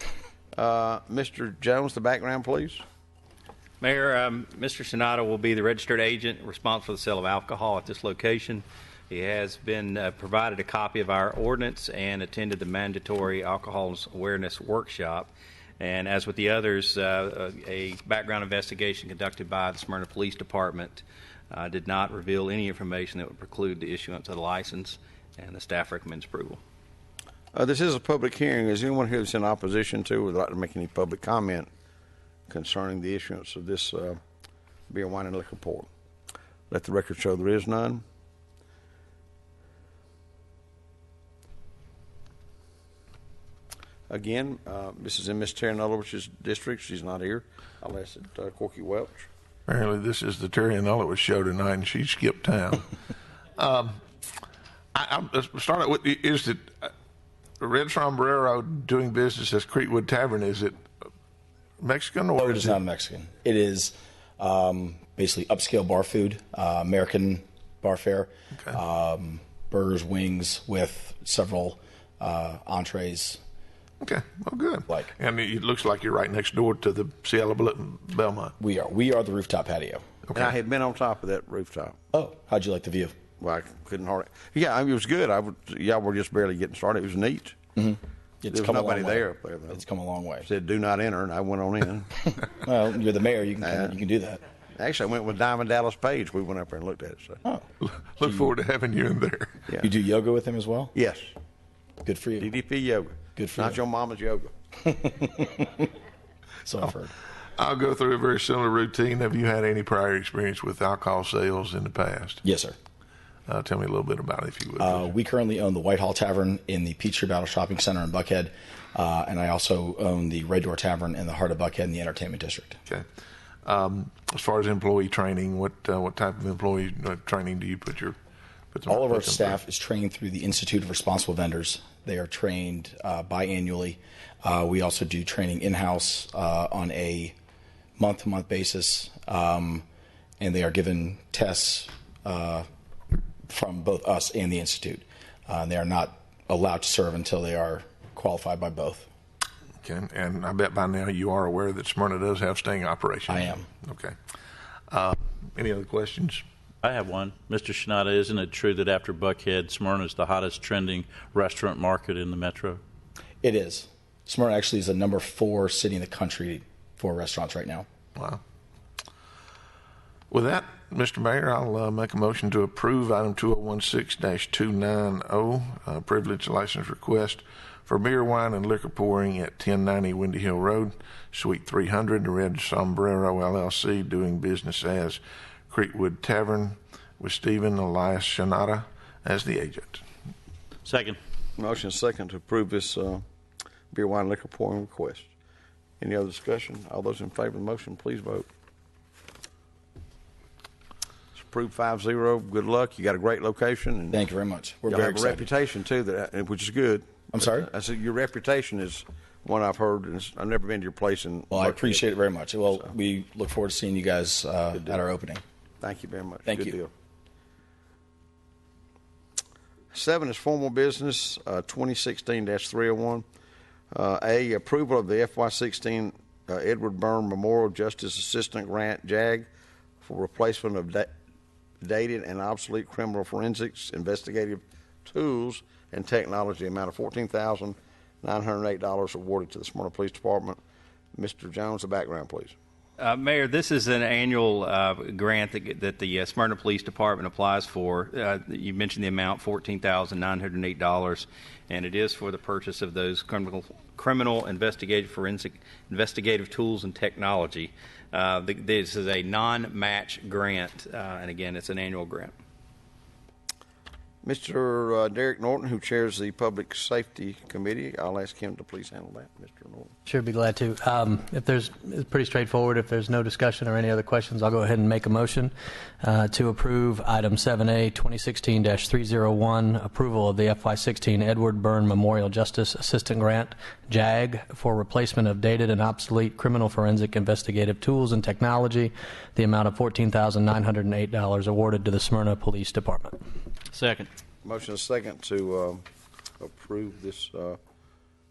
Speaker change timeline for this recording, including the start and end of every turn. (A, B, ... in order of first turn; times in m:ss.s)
0:00.5-0:02.8 A
0:03.8-0:26.6 B
0:27.5-0:31.7 A
0:32.5-0:34.2 A
0:34.9-0:35.9 A
0:36.7-0:38.0 A
0:44.1-0:49.3 A
0:49.7-0:52.9 C
0:53.6-0:54.0 C
0:54.9-0:56.9 C
0:57.6-1:00.8 C
1:01.8-1:02.8 C
1:02.4-1:13.4 D
1:14.0-1:18.5 C
1:18.6-1:20.0 D
1:20.3-1:22.0 A
1:22.1-1:23.2 D
1:23.4-1:27.6 A
1:27.8-1:30.5 D
1:28.5-1:29.8 A
1:30.4-1:32.1 A
1:32.3-1:34.4 D
1:33.6-1:33.9 A
1:34.8-1:37.4 A
1:37.8-1:39.7 C
1:38.2-1:38.5 D
1:39.8-1:40.9 D
1:40.9-1:41.3 A
1:42.0-1:42.5 D
1:42.4-1:44.5 A
1:43.4-1:43.8 D
1:44.8-1:45.9 D
1:46.6-1:47.1 D
1:47.6-1:52.4 C
1:52.4-1:52.8 D
1:53.5-1:55.1 C
1:54.8-2:02.8 D
2:03.6-2:08.2 C
2:08.7-2:09.5 C
2:08.9-2:17.3 D
2:18.0-2:19.8 D
2:20.4-2:22.7 D
2:23.5-2:29.1 D
2:29.8-2:34.2 C
2:33.3-2:33.7 D
2:34.9-2:36.4 C
2:36.8-2:42.8 E
2:43.4-2:47.9 D
2:48.2-2:48.4 C
2:50.3-3:10.0 C
3:10.8-3:11.2 E
3:11.6-3:13.2 A
3:13.9-3:15.3 A
3:16.0-3:18.5 A
3:21.4-3:24.2 A
3:24.1-3:25.5 D
3:24.9-3:32.0 A
3:27.3-3:27.7 D
3:31.5-3:35.4 D
3:35.8-3:36.9 A
3:36.5-3:36.8 D
3:39.9-3:43.2 A
3:43.9-3:49.5 A
3:50.0-3:51.1 A
3:51.8-4:00.6 A
4:01.1-4:02.6 A
4:03.0-4:22.3 B
4:24.2-4:29.9 A
4:30.0-4:53.2 F
4:53.7-4:54.1 E
4:54.4-4:55.8 A
4:56.4-4:57.6 A